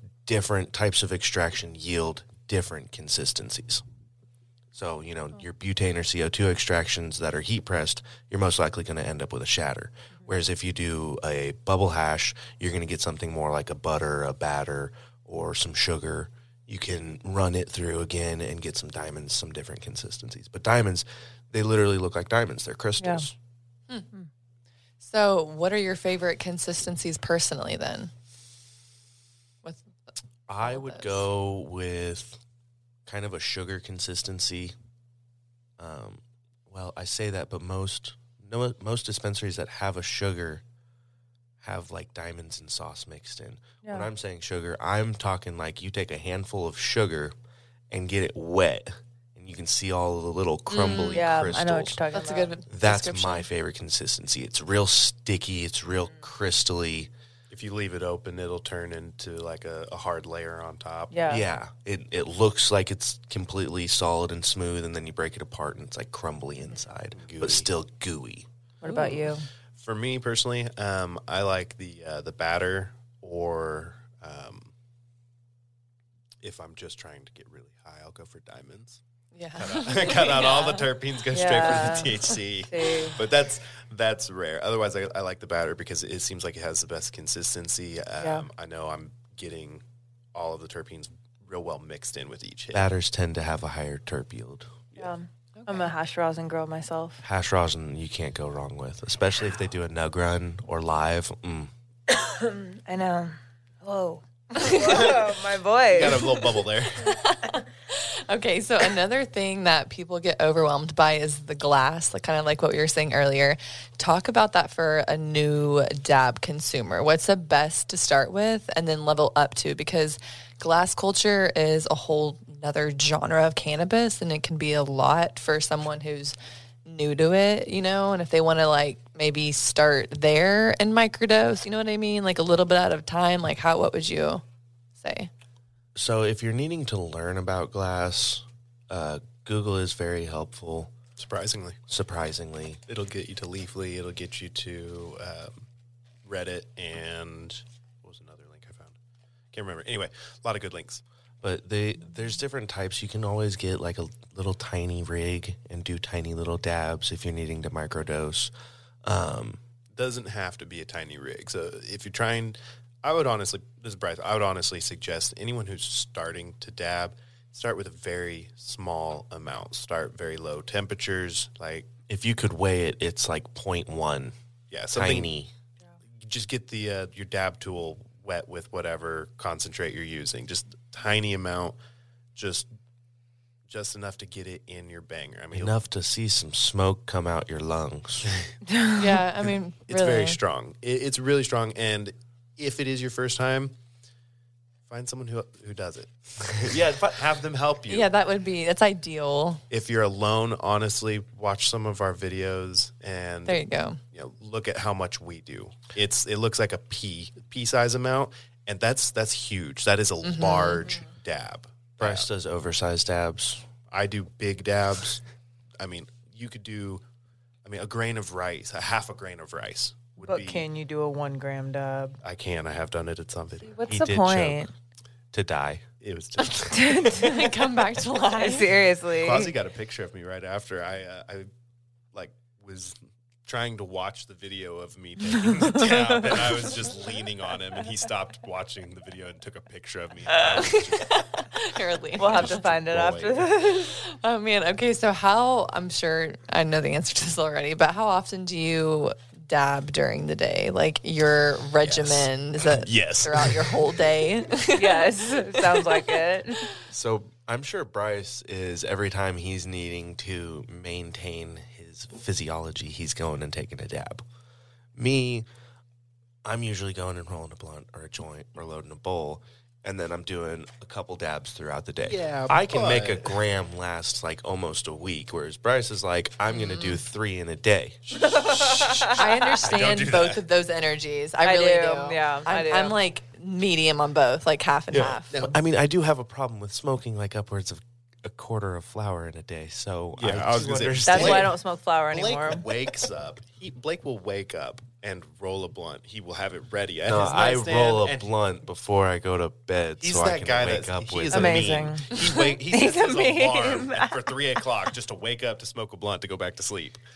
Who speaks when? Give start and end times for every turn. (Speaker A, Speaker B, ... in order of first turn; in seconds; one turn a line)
Speaker A: 0.2-3.8
Speaker A: 4.7-23.3
Speaker B: 23.0-23.2
Speaker C: 25.0-28.1
Speaker C: 29.6-29.9
Speaker A: 30.5-32.4
Speaker C: 30.6-31.2
Speaker A: 33.0-34.7
Speaker A: 35.8-40.6
Speaker A: 41.6-47.3
Speaker B: 43.8-44.1
Speaker A: 47.9-52.0
Speaker C: 50.7-51.2
Speaker B: 51.1-52.5
Speaker C: 52.1-53.5
Speaker A: 52.7-57.1
Speaker D: 57.5-61.2
Speaker B: 61.1-61.4
Speaker A: 61.3-68.5
Speaker D: 67.2-67.7
Speaker B: 68.8-69.5
Speaker C: 68.8-69.3
Speaker D: 69.8-74.7
Speaker D: 76.4-79.0
Speaker C: 79.3-80.9
Speaker D: 79.5-92.8
Speaker B: 81.3-83.2
Speaker B: 88.2-88.5
Speaker A: 92.7-94.7
Speaker B: 95.0-97.2
Speaker C: 95.6-95.9
Speaker A: 97.2-101.7
Speaker B: 102.1-106.5
Speaker C: 104.6-105.1
Speaker D: 104.7-105.1
Speaker D: 105.9-107.2
Speaker C: 107.0-134.4
Speaker C: 135.0-135.3
Speaker A: 135.9-140.9
Speaker D: 141.2-141.8
Speaker A: 141.9-142.8
Speaker D: 142.9-145.6
Speaker D: 146.2-148.9
Speaker D: 149.5-151.0
Speaker A: 151.4-158.5
Speaker A: 159.0-159.6
Speaker D: 159.9-171.9
Speaker A: 172.1-174.3
Speaker D: 174.7-175.3
Speaker A: 174.9-175.5
Speaker D: 176.2-181.8
Speaker D: 182.3-182.7
Speaker D: 183.7-185.8
Speaker A: 185.5-188.3
Speaker B: 188.7-189.0
Speaker C: 189.0-190.4
Speaker D: 189.4-193.7
Speaker D: 194.9-198.1
Speaker A: 196.5-197.3
Speaker C: 197.9-199.6
Speaker D: 199.7-212.3
Speaker C: 203.5-204.0
Speaker C: 210.2-210.9
Speaker A: 212.0-213.7
Speaker D: 213.9-215.2
Speaker D: 215.8-217.0
Speaker D: 217.6-220.7
Speaker B: 220.2-222.2
Speaker D: 222.2-223.8
Speaker B: 223.7-224.7
Speaker A: 223.9-224.6
Speaker A: 225.3-225.8
Speaker D: 226.0-227.3
Speaker B: 226.7-227.4
Speaker C: 227.0-228.7
Speaker B: 228.3-229.5
Speaker D: 229.2-231.5
Speaker D: 232.1-241.5
Speaker B: 235.6-236.6
Speaker C: 240.5-242.7
Speaker B: 242.2-244.0
Speaker D: 242.3-243.5
Speaker C: 244.0-256.0
Speaker D: 251.9-254.0
Speaker B: 254.8-256.6
Speaker A: 256.9-264.2
Speaker A: 264.9-265.5
Speaker A: 266.4-278.2
Speaker D: 272.0-273.4
Speaker C: 276.5-277.0
Speaker B: 278.2-279.2
Speaker D: 278.4-280.4
Speaker C: 279.1-285.3
Speaker B: 281.4-283.0
Speaker A: 284.9-291.6
Speaker D: 290.1-291.6
Speaker B: 291.0-292.7
Speaker D: 292.1-298.3
Speaker A: 297.1-301.9
Speaker D: 300.0-307.0
Speaker B: 301.3-304.3